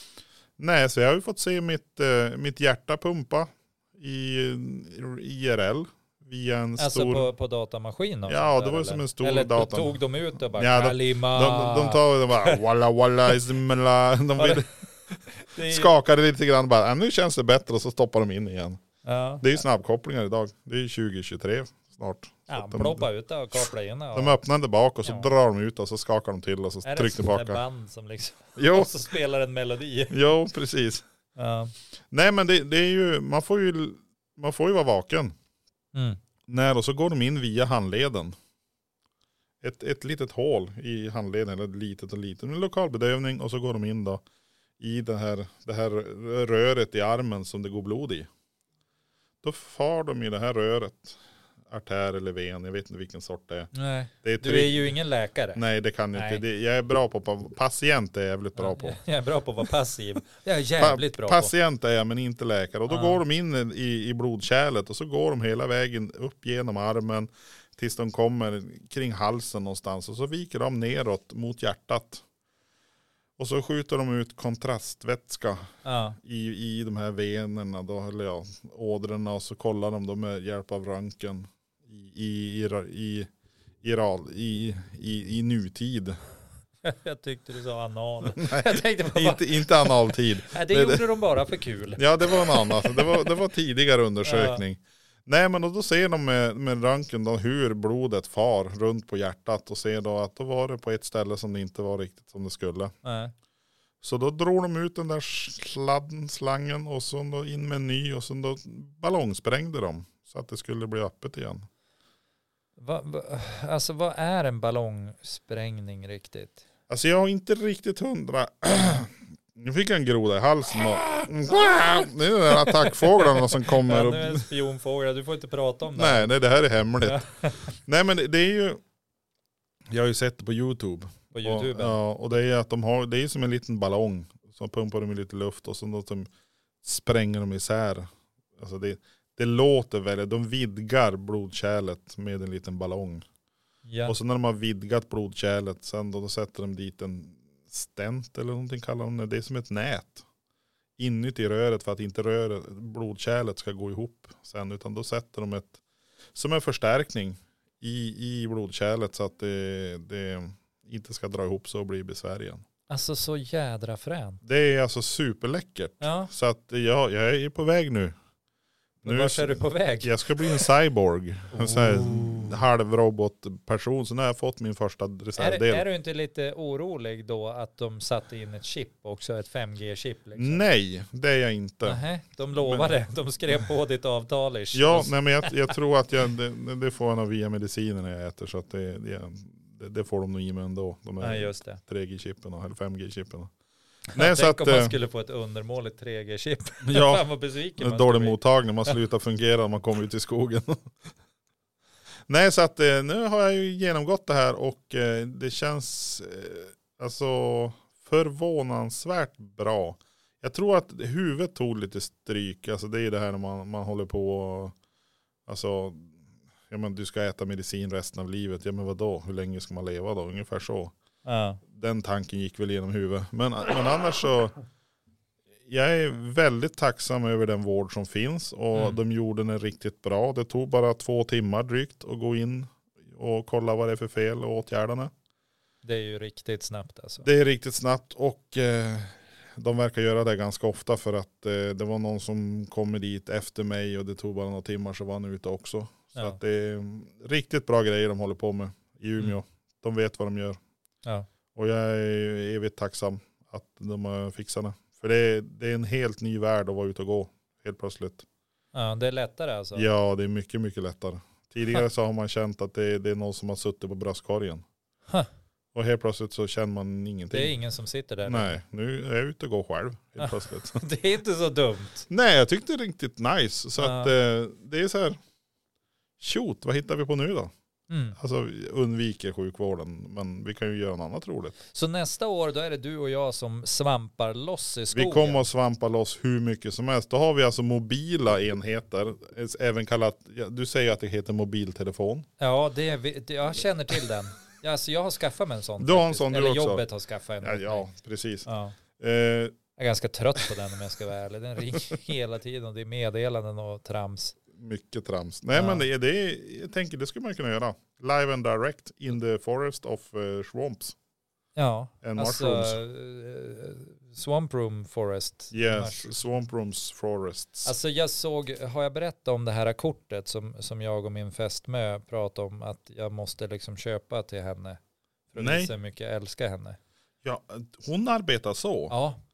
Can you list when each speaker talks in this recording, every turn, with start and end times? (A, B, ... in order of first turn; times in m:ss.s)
0:00.6-0:07.3 A
0:06.8-0:12.6 B
0:08.3-0:10.0 A
0:10.5-0:14.7 A
0:14.4-0:14.6 B
0:15.3-0:15.9 B
0:15.6-0:18.8 A
0:19.0-0:19.6 B
0:19.4-0:27.6 A
0:22.5-0:24.4 B
0:25.0-0:25.3 B
0:26.8-0:30.2 B
0:28.6-0:29.0 A
0:30.1-0:31.0 A
0:31.4-0:31.7 B
0:32.1-0:35.3 A
0:35.9-0:36.2 B
0:36.5-0:38.3 A
0:39.6-0:44.2 A
0:44.8-0:48.3 A
0:49.4-0:53.7 A
0:53.7-0:55.6 B
0:54.2-0:55.0 A
0:55.5-0:59.0 A
0:56.1-0:56.4 B
0:58.6-1:01.5 B
1:00.8-1:12.2 A
1:02.9-1:03.2 B
1:13.4-1:23.3 A
1:15.8-1:16.2 B
1:23.8-1:26.2 A
1:26.8-1:33.3 B
1:28.2-1:31.0 A
1:32.0-1:42.9 A
1:34.2-1:34.6 B
1:43.0-1:43.3 B
1:44.0-1:51.7 A
1:52.8-1:56.6 B
1:56.9-2:04.5 A
2:02.6-2:06.3 B
2:05.9-2:08.8 A
2:07.0-2:07.7 B
2:09.9-2:16.3 A
2:11.3-2:12.0 B
2:16.8-2:23.2 A
2:23.8-2:24.1 B
2:24.0-2:30.2 A
2:31.0-2:35.8 A
2:36.3-2:42.6 A
2:42.9-2:44.4 B
2:44.4-2:48.2 A
2:46.0-2:46.3 B
2:49.0-2:55.8 A
2:49.0-2:50.7 B
2:51.5-2:52.6 B
2:55.4-3:00.6 B
3:00.3-3:02.0 A
3:01.8-3:05.7 B
3:02.6-3:02.9 A
3:04.7-3:13.5 A
3:11.2-3:11.8 B
3:14.1-3:18.9 B
3:14.1-3:14.9 A
3:16.8-3:17.2 A
3:17.8-3:20.9 A
3:22.3-3:34.7 A
3:35.5-3:36.2 A
3:36.7-3:40.9 A
3:41.2-3:41.6 B
3:41.7-3:44.5 A
3:45.7-3:55.1 A
3:48.7-3:49.0 B
3:55.8-3:57.3 B
3:57.2-4:10.6 A
4:11.5-4:18.2 A
4:18.7-4:19.9 B
4:19.7-4:24.6 A
4:25.7-4:27.6 A
4:27.3-4:28.6 B
4:28.2-4:30.8 A
4:30.2-4:32.1 B
4:32.1-4:35.2 A
4:33.8-4:34.1 B
4:36.2-4:37.5 A
4:37.9-4:38.2 B
4:38.2-4:41.6 A
4:41.7-4:45.4 B
4:44.9-4:52.3 A
4:52.4-4:57.9 B
4:55.8-4:56.8 A
4:57.4-4:58.5 A
4:58.4-4:58.8 B
4:59.0-4:59.6 A
4:59.8-5:04.4 B
5:04.5-5:10.9 A
5:05.5-5:05.8 B
5:11.6-5:16.2 B
5:12.0-5:12.8 A
5:15.5-5:17.7 A
5:17.6-5:24.8 B
5:25.3-5:26.8 B
5:25.4-5:25.7 A
5:27.2-5:28.9 A
5:28.9-5:29.2 B